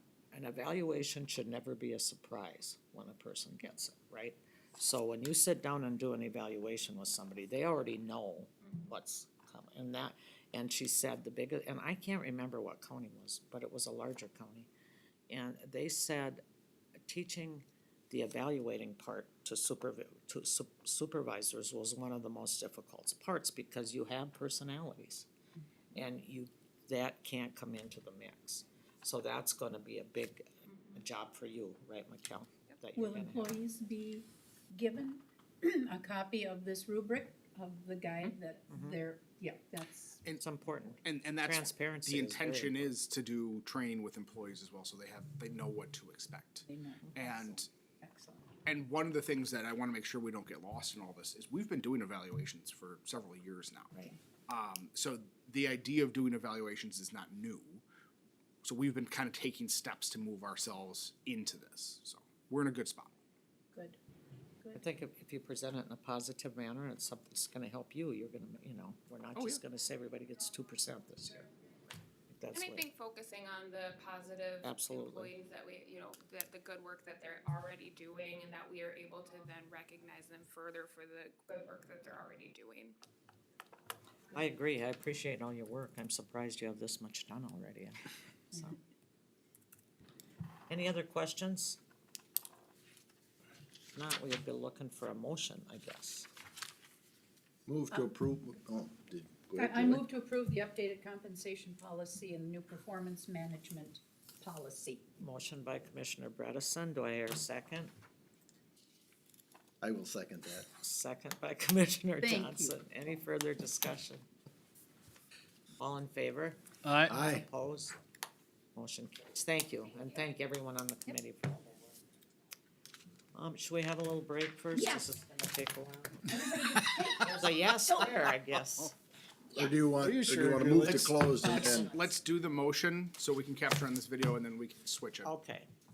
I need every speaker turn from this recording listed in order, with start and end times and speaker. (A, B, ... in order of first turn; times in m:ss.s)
0:00.3-0:14.7 A
0:15.3-0:16.4 A
0:17.0-0:25.3 A
0:25.9-0:33.6 A
0:33.0-0:40.2 B
0:38.7-0:39.0 A
0:40.4-0:42.9 A
0:41.0-0:47.7 C
0:46.6-0:48.6 B
0:48.6-0:57.8 C
0:58.6-1:03.1 C
1:03.7-1:04.0 B
1:04.7-1:11.5 A
1:09.4-1:09.6 C
1:12.3-1:12.8 A
1:12.5-1:23.0 D
1:14.6-1:15.3 A
1:24.3-1:28.0 A
1:28.5-1:28.8 A
1:30.7-1:31.8 A
1:33.9-1:36.3 A
1:37.6-1:40.0 E
1:39.6-1:45.0 B
1:45.2-1:47.9 A
1:49.8-1:50.7 E
1:50.8-1:54.2 A
1:52.2-1:52.8 B
1:55.8-1:58.0 A
1:57.1-1:57.4 E
1:58.7-2:01.8 A
2:03.3-2:06.4 A
2:06.4-2:07.0 B
2:07.1-2:08.9 A
2:09.5-2:11.9 E
2:10.0-2:15.3 C
2:15.2-2:15.7 A